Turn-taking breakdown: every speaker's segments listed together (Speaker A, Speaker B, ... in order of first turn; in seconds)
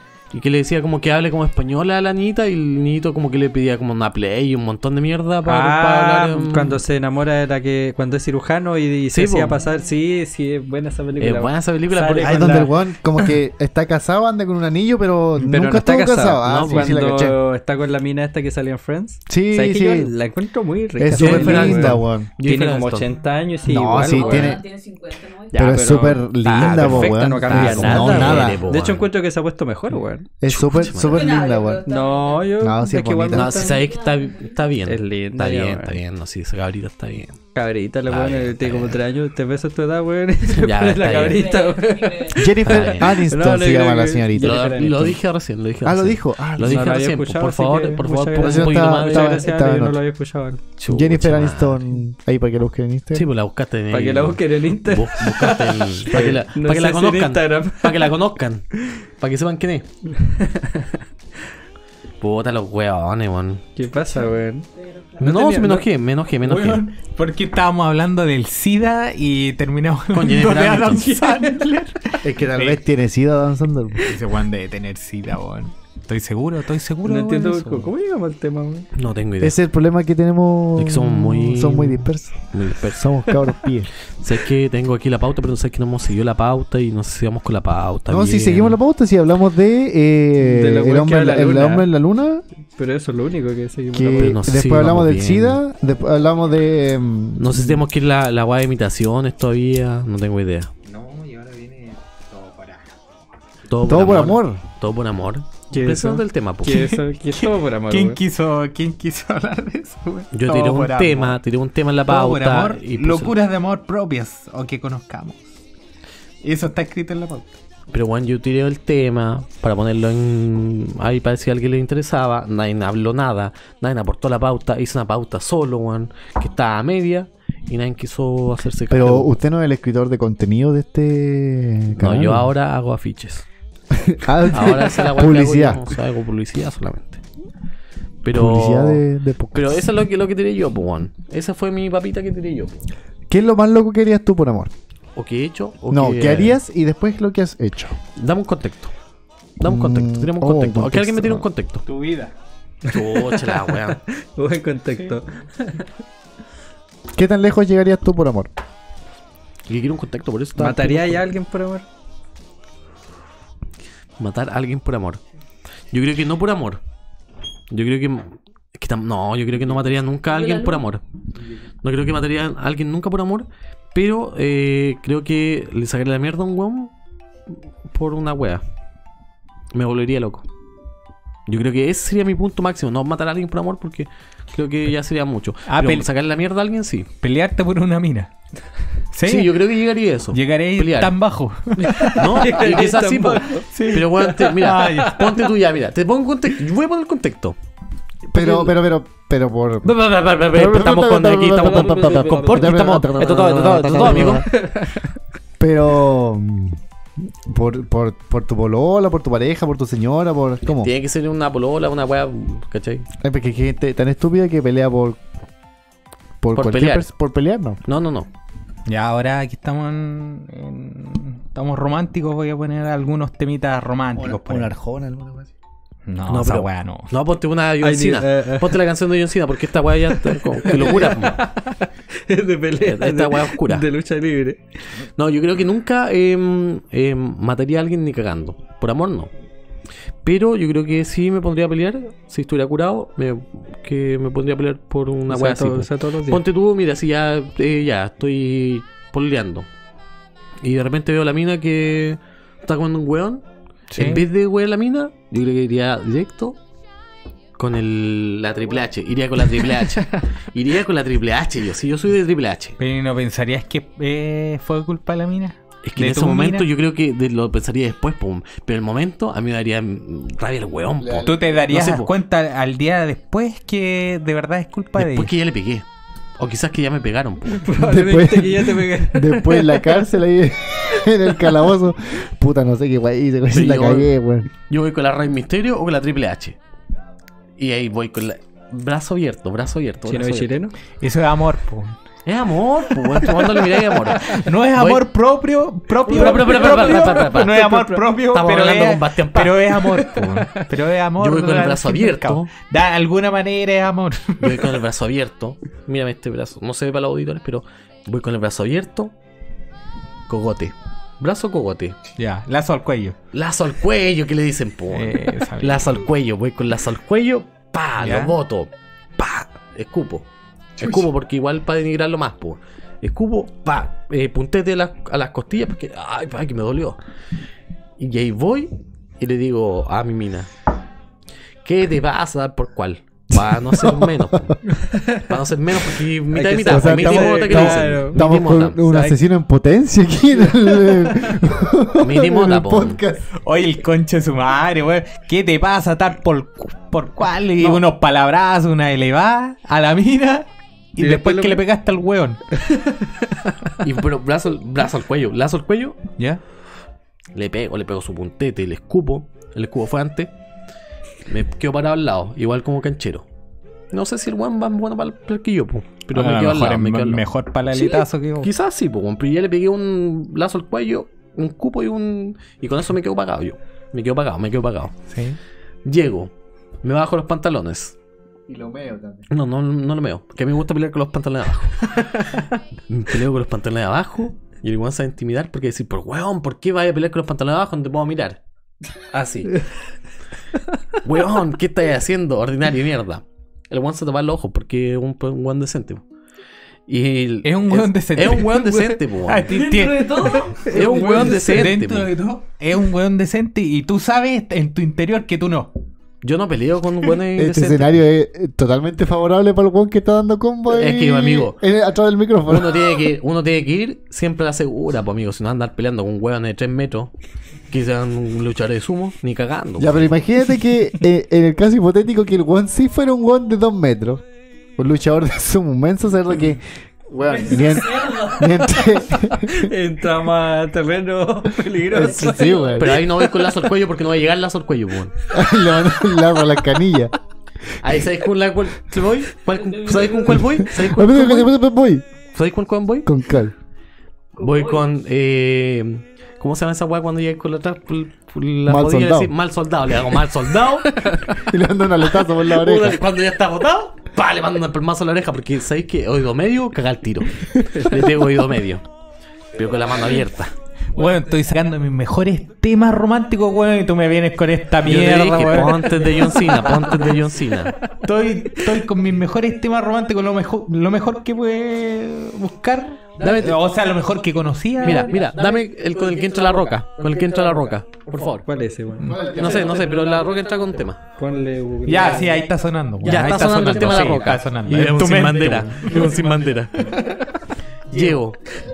Speaker A: 0.3-6.8, 9.1-9.6, 11.2-12.6, 16.4-16.9, 21.1-23.1, 26.5-29.1, 30.5-31.4, 33.3-37.4, 38.1-39.0, 40.5-41.5, 42.6-43.2, 44.4-49.5, 50.8-51.8, 53.1-59.9, 62.2-63.6, 65.2-66.8, 70.1-71.2, 79.0-79.6, 80.8-83.1, 84.2-88.8, 94.2-95.6, 97.4-100.7, 103.7-106.9, 110.3-113.3, 117.9-129.3, 132.0-133.5, 134.5-137.2, 138.2-139.0, 139.5-142.8, 145.2-146.6, 148.2-148.9, 149.6-151.8, 152.9-154.0, 159.7-161.3, 164.2-165.2, 165.9-166.8, 167.7-171.0, 171.8-176.9, 177.9-178.6, 179.7-180.5, 181.5-187.1, 189.2-191.1, 191.9-197.6, 198.3-198.7, 199.8-204.5, 210.7-213.1, 216.6-217.1, 217.9-218.3, 226.3-231.4, 232.8-233.9, 235.2-239.3, 240.2-249.7, 250.6-256.6, 257.6-262.8, 265.9-272.1, 275.0-275.9, 276.4-277.7, 283.5-286.6, 287.6-290.5, 292.3-295.0, 296.1-299.8, 301.2-302.5, 304.4-309.1, 310.3-312.0, 313.3-320.3, 320.8-327.0, 328.0-330.5, 331.6-334.6, 335.2-338.8, 342.0-343.0, 353.8-356.0, 357.3-360.3, 361.3-363.2, 363.9-374.9, 375.9-376.3, 376.8-377.9, 379.3-382.3, 382.9-388.4, 389.1-389.6, 391.0-396.0, 396.9-399.5, 400.7-402.1, 406.2-407.9, 410.7-411.6, 412.5-417.1, 417.7-420.1, 432.8-435.1, 437.8-441.5, 442.3-443.1, 444.4-451.1, 452.4-458.8, 459.5-460.5, 464.8-467.8, 473.2-473.6, 474.8-478.5, 479.3-481.0, 483.0-486.9, 487.9-488.4
Speaker B: 5.5-12.7, 15.4-24.6, 25.5-30.3, 31.9-33.8, 34.9-36.0, 37.5-45.1, 46.6-50.6, 53.9-58.1, 60.1-60.9, 63.8-64.7, 65.2-65.9, 71.2-71.5, 77.0-78.9, 90.4-91.9, 92.8-94.4, 105.7-108.2, 152.9-155.8, 160.6-161.8, 191.9-195.2, 202.2-202.7, 204.2-205.1, 227.8-228.8, 230.2-234.6, 245.3-246.4, 277.6-280.1, 290.1-290.8, 296.1-298.0, 334.7-335.2, 336.3-338.3, 338.8-339.2, 351.0-351.6, 352.6-353.7, 429.3-432.8, 451.1-451.3, 478.4-479.2, 481.2-482.4
Speaker C: 12.2-17.4, 19.3-20.1, 21.0-22.3, 23.7-24.6, 25.5-28.6, 30.4-31.9, 32.6-33.8, 42.3-45.2, 45.8-46.9, 48.4-50.0, 50.9-53.3, 72.2-74.1, 79.4-83.9, 88.1-92.4, 93.9-97.8, 103.9-104.6, 128.9-132.5, 133.9-135.9, 138.3-139.9, 143.3-144.7, 145.9-148.0, 149.6-151.5, 157.2-158.5, 198.3-204.5, 205.6-206.8, 207.4-210.9, 213.2-215.2, 216.4-217.8, 224.2-225.5, 271.0-271.4, 277.8-284.5, 333.3-334.6, 336.7-343.3, 378.5-379.3, 407.4-413.0, 419.8-424.2, 424.8-429.7, 431.8-433.1, 435.3-437.1, 440.3-442.1, 443.1-443.5, 448.7-449.3, 451.4-453.0, 479.0-479.9
Speaker D: 23.9-25.8, 30.9-32.5, 33.4-34.6, 41.2-42.4, 64.8-65.2, 170.3-170.8, 399.5-401.3, 427.9-428.2, 439.6-440.2, 444.4-444.9, 474.9-475.6
Speaker E: 66.4-72.8, 74.0-77.9, 100.8-103.0, 106.7-111.4, 112.1-115.5, 116.4-117.5, 151.8-152.3, 185.7-186.1, 187.2-188.3, 189.1-189.7, 190.3-192.5, 193.7-195.3, 218.9-224.7, 226.1-227.1, 253.9-254.3, 262.8-266.7, 271.2-275.3, 291.0-292.0, 293.6-304.8, 312.2-313.2, 314.9-316.0, 318.0-318.4, 343.4-352.4, 366.1-368.5, 375.1-375.4, 397.4-405.7, 460.9-466.4, 468.0-475.3, 481.9-486.4